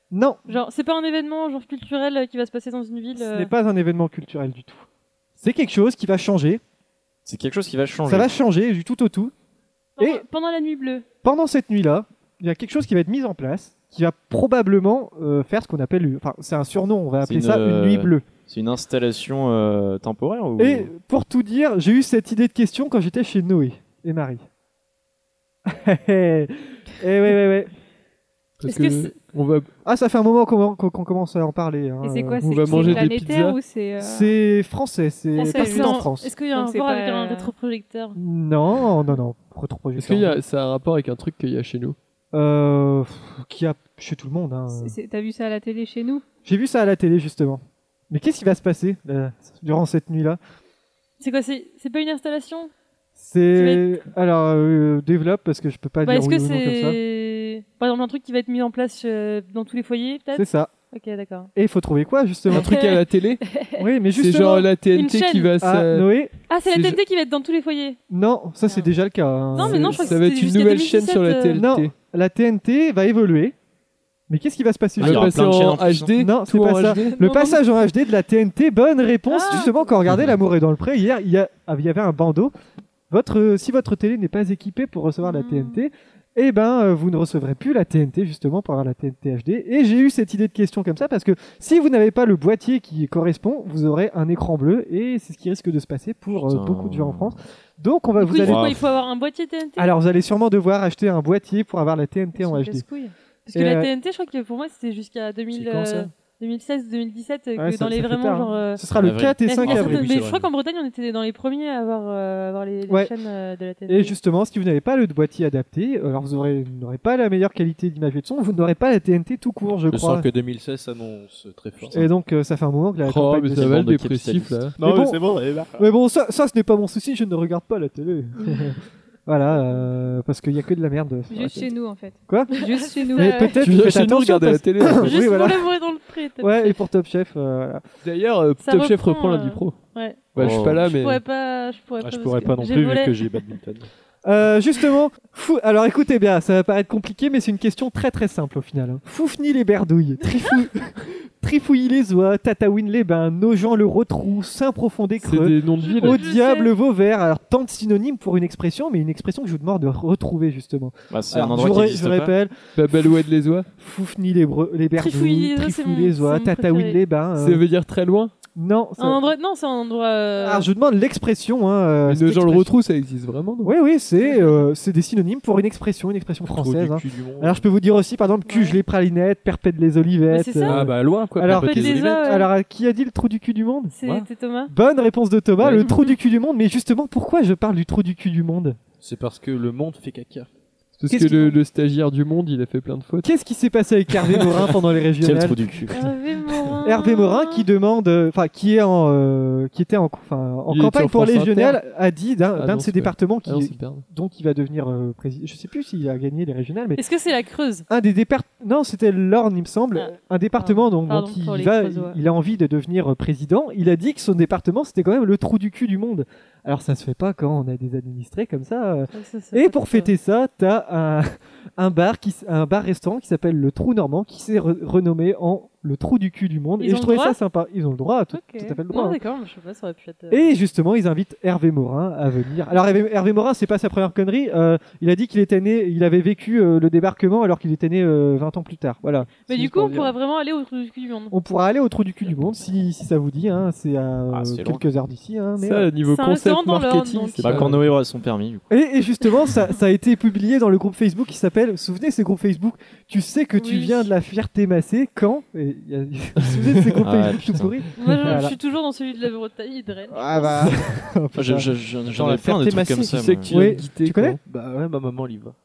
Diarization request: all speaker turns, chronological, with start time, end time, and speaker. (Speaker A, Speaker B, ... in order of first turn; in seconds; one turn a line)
Speaker A: 0.1-0.6
Speaker B: 0.5-3.5
Speaker A: 3.2-4.9
Speaker A: 5.4-6.6
Speaker C: 7.3-8.3
Speaker A: 8.1-9.3
Speaker B: 10.0-11.1
Speaker A: 10.0-10.2
Speaker A: 11.2-18.3
Speaker C: 17.2-20.9
Speaker A: 20.6-24.4
Speaker A: 25.7-27.7
Speaker D: 28.6-29.7
Speaker B: 28.7-29.1
Speaker A: 29.9-33.1
Speaker E: 32.0-34.4
Speaker D: 32.4-33.6
Speaker A: 34.0-36.3
Speaker B: 35.4-38.2
Speaker E: 35.4-37.5
Speaker A: 38.2-40.4
Speaker D: 40.0-42.0
Speaker A: 42.3-45.0
Speaker E: 44.7-46.2
Speaker A: 46.5-50.4
Speaker B: 51.2-52.7
Speaker A: 53.2-57.0
Speaker B: 53.5-54.0
Speaker B: 56.0-61.5
Speaker A: 60.3-60.7
Speaker A: 61.6-62.8
Speaker D: 62.5-63.4
Speaker B: 62.5-63.0
Speaker E: 63.5-63.8
Speaker A: 63.8-64.7
Speaker D: 64.2-66.1
Speaker B: 64.9-65.5
Speaker A: 65.6-66.3
Speaker B: 66.5-68.0
Speaker D: 66.7-67.0
Speaker A: 68.1-70.2
Speaker B: 68.7-68.9
Speaker B: 69.5-71.7
Speaker D: 69.6-71.9
Speaker A: 71.5-73.5
Speaker A: 74.3-75.4
Speaker C: 75.0-76.1
Speaker D: 75.0-77.3
Speaker A: 76.1-82.5
Speaker B: 77.2-77.6
Speaker B: 79.3-80.0
Speaker A: 83.1-98.8
Speaker B: 85.3-85.7
Speaker C: 96.4-97.3
Speaker B: 98.2-99.9
Speaker C: 98.4-98.8
Speaker A: 99.8-102.8
Speaker B: 102.4-108.8
Speaker A: 103.5-103.9
Speaker F: 105.5-106.1
Speaker A: 107.6-110.1
Speaker C: 109.0-109.4
Speaker B: 109.4-114.2
Speaker F: 109.6-110.5
Speaker A: 113.9-120.2
Speaker F: 119.9-122.0
Speaker A: 121.9-123.8
Speaker D: 123.0-124.8
Speaker C: 123.6-124.6
Speaker F: 124.8-125.8
Speaker A: 124.8-125.2
Speaker A: 125.8-131.7
Speaker E: 131.3-133.6
Speaker A: 132.3-132.6
Speaker B: 132.6-133.6
Speaker A: 133.1-135.7
Speaker D: 133.6-135.1
Speaker B: 134.9-136.8
Speaker A: 136.4-137.8
Speaker D: 138.0-139.8
Speaker B: 138.6-140.3
Speaker D: 140.4-141.2
Speaker F: 140.4-140.8
Speaker C: 140.4-140.8
Speaker B: 140.8-143.2
Speaker F: 142.0-143.9
Speaker A: 144.2-162.5
Speaker D: 155.2-156.2
Speaker B: 155.8-156.7
Speaker C: 161.1-162.3
Speaker D: 162.8-163.7
Speaker A: 163.8-167.6
Speaker B: 165.0-167.0
Speaker D: 167.4-168.3
Speaker A: 168.6-169.3
Speaker B: 169.0-170.7
Speaker A: 170.4-172.7
Speaker D: 172.1-173.7
Speaker A: 173.6-183.9
Speaker F: 176.4-177.7
Speaker B: 178.5-178.8
Speaker B: 180.3-180.8
Speaker F: 180.6-182.2
Speaker B: 181.5-182.5
Speaker B: 184.0-184.7
Speaker A: 184.7-188.8
Speaker B: 185.8-186.2
Speaker F: 189.0-190.5
Speaker D: 191.0-193.3
Speaker A: 191.1-191.6
Speaker A: 193.2-195.6
Speaker C: 195.2-196.1
Speaker B: 195.9-197.7
Speaker A: 196.8-207.0
Speaker D: 200.7-201.8
Speaker D: 202.6-204.1
Speaker B: 207.0-207.9
Speaker A: 207.9-229.2
Speaker B: 209.9-212.2
Speaker B: 219.1-220.1
Speaker B: 226.8-227.4
Speaker B: 228.3-230.5
Speaker A: 230.3-240.1
Speaker B: 239.5-241.3
Speaker A: 241.3-245.9
Speaker C: 244.3-244.8
Speaker D: 245.6-247.9
Speaker B: 246.1-247.7
Speaker C: 247.4-248.7
Speaker A: 248.7-258.6
Speaker B: 253.6-254.1
Speaker C: 257.0-257.7
Speaker B: 258.0-260.7
Speaker A: 260.1-262.3
Speaker C: 261.4-263.5
Speaker F: 262.1-263.0
Speaker D: 263.0-264.4
Speaker A: 263.5-264.4
Speaker F: 264.4-265.6